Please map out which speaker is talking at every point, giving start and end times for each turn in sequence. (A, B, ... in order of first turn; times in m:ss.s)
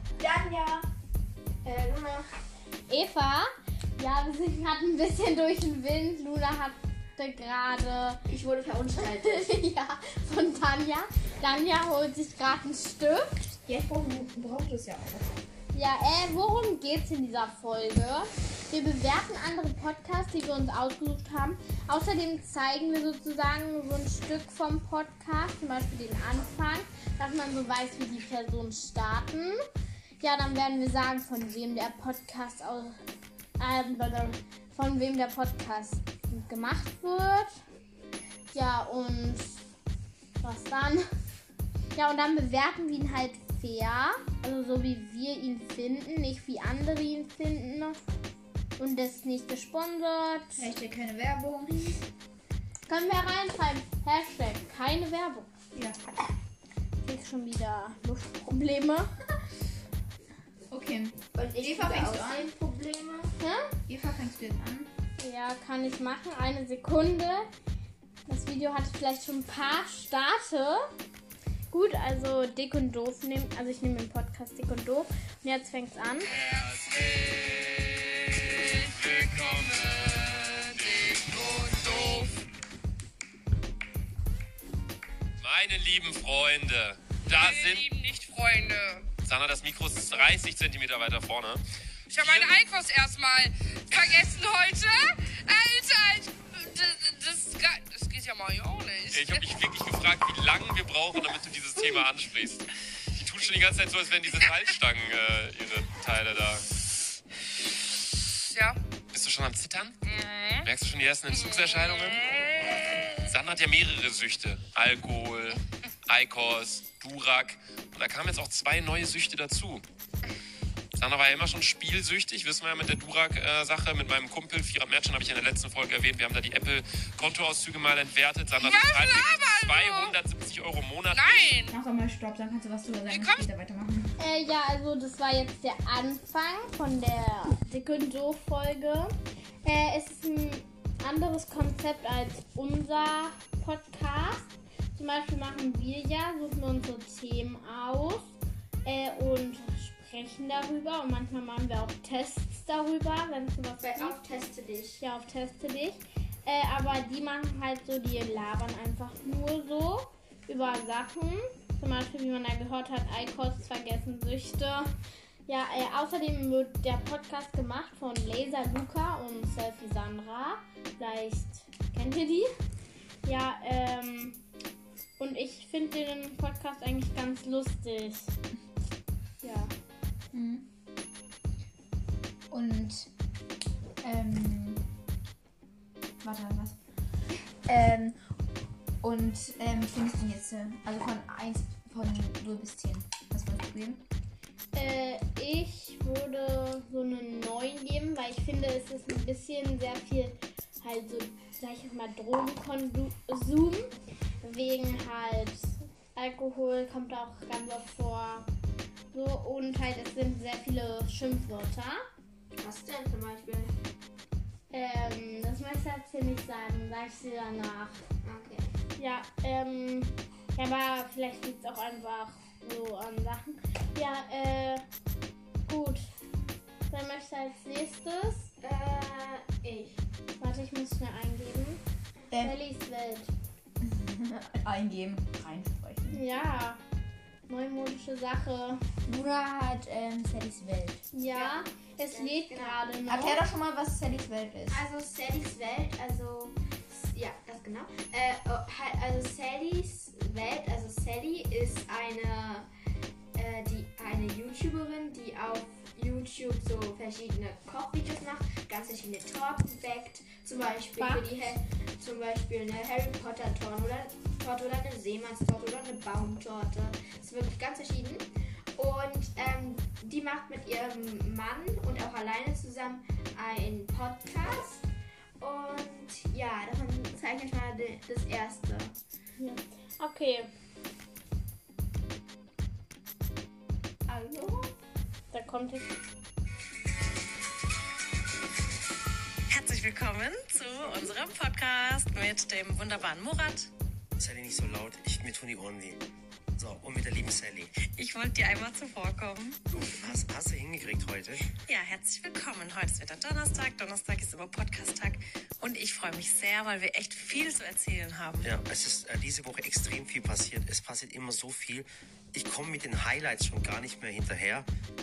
0:00.2-0:00.8 A
0:01.6-0:02.3 A
0:02.9-0:08.2 B
0:08.3-0:09.5 A
0:09.0-0:13.5 B
0:13.6-0:15.3 C
0:15.7-0:29.6 B
0:30.2-0:33.0 B
0:33.6-0:37.5 B
0:38.5-0:39.6 B
0:40.4-0:41.0 B
0:41.9-0:48.0 B
0:48.8-0:50.7 B
0:50.6-0:51.8 C
0:52.9-0:55.5 B
0:57.0-0:59.1 B
1:00.7-1:02.5 C
1:01.3-1:03.3 A
1:03.4-1:03.7 B
1:03.9-1:04.9 C
1:05.2-1:07.5 B
1:08.2-1:10.8 B
1:11.7-1:16.3 B
1:16.3-1:22.4 D
1:25.4-1:28.0 D
1:27.4-1:29.0 E
1:29.2-1:31.6 D
1:32.1-1:39.4 E
1:32.1-1:32.7 D
1:39.1-1:42.6 D
1:43.2-1:46.6 D
1:49.1-1:50.0 D
1:50.0-1:50.6 E
1:50.6-1:52.7 D
1:51.3-1:52.2 E
1:53.3-1:59.8 D
2:01.0-2:11.6 D
2:08.6-2:10.2 E
2:11.1-2:11.7 E
2:11.7-2:14.1 C
2:13.1-2:13.4 E
2:14.2-2:19.1 B
2:19.6-2:34.2 B
2:33.8-2:35.0 A
2:35.0-2:44.9 B
2:45.5-2:52.5 B
2:53.2-2:54.4 B
2:55.2-2:58.3 B
2:59.4-2:59.7 B
3:00.3-3:00.7 C
3:02.5-3:03.1 C
3:04.0-3:04.8 C
3:06.2-3:06.8 C
3:07.7-3:08.2 C
3:09.0-3:14.0 C
3:14.7-3:28.5 B
3:29.1-3:32.0 B
3:32.6-3:33.7 A
3:34.7-3:38.0 B
3:38.2-3:38.7 A
3:39.0-3:44.8 B
3:45.7-3:46.1 B
3:46.9-3:48.5 B
3:48.6-3:50.0 A
3:50.4-3:51.8 B
3:52.3-3:52.6 C
3:52.4-3:53.3 B
3:53.8-3:56.2 C
3:56.1-3:56.8 B
3:57.5-3:58.8 B
3:59.0-4:01.0 C
4:01.1-4:03.4 B
4:01.3-4:02.8 A
4:03.0-4:04.8 C
4:04.7-4:12.7 A
4:13.4-4:34.8 A
4:21.0-4:21.3 B
4:35.4-4:38.9 A
4:39.4-4:40.5 B
4:44.1-4:44.7 A
4:45.3-4:45.9 B
4:49.5-4:53.7 F
4:54.2-4:56.0 G
4:56.6-4:57.7 G
4:57.8-5:00.2 F
4:59.7-5:01.5 G
5:01.7-5:08.5 F
5:08.4-5:14.7 G